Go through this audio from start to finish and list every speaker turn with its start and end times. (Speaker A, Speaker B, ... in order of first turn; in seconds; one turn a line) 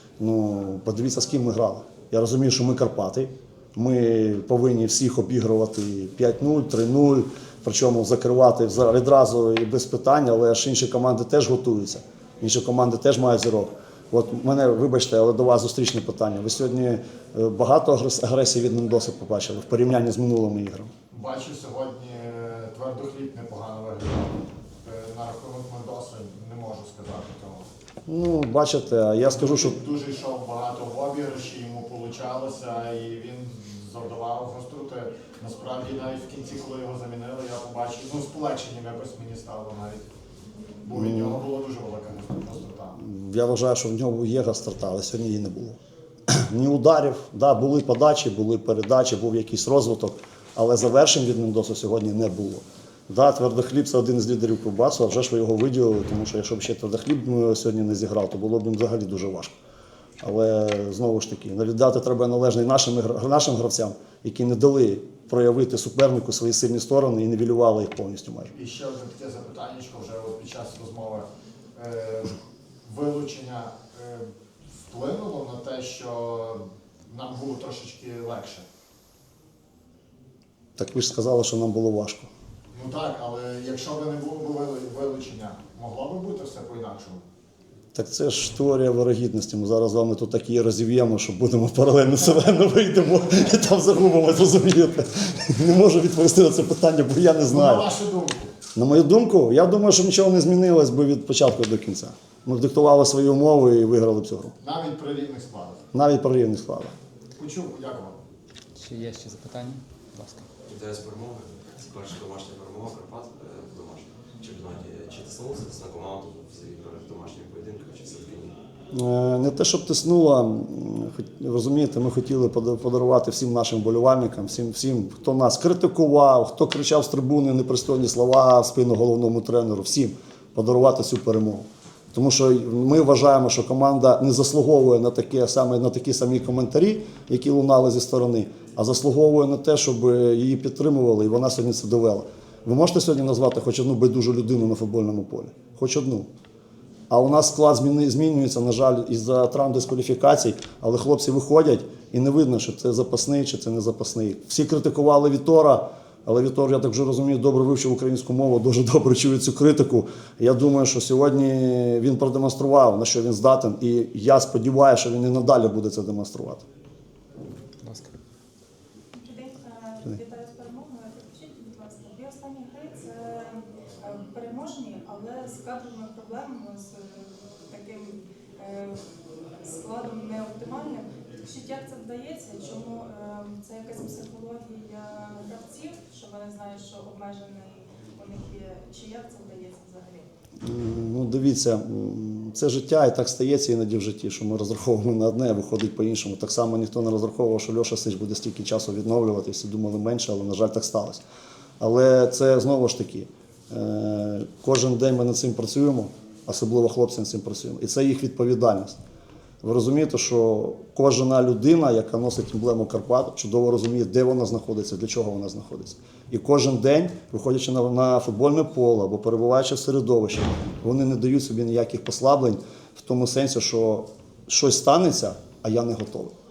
Speaker A: 0.2-20.9
Speaker B: 21.1-27.7
Speaker A: 28.1-29.8
Speaker B: 29.3-40.1
Speaker B: 40.9-43.0
Speaker A: 40.9-41.4
Speaker A: 43.0-45.8
Speaker A: 46.3-59.6
Speaker A: 60.2-68.5
Speaker B: 68.5-74.3
Speaker B: 74.9-78.7
Speaker A: 80.8-82.3
Speaker B: 82.7-87.2
Speaker A: 87.9-97.9
Speaker B: 97.5-98.5
Speaker A: 98.8-104.5
Speaker B: 104.6-105.8
Speaker A: 105.9-106.9
Speaker B: 107.3-108.2
Speaker C: 108.8-110.5
Speaker D: 110.7-118.5
Speaker A: 118.9-146.3
Speaker A: 147.1-166.6
Speaker C: 167.8-168.1
Speaker E: 169.1-179.1
Speaker E: 179.6-190.3
Speaker A: 190.6-201.2
Speaker A: 201.8-209.0
Speaker A: 209.6-226.3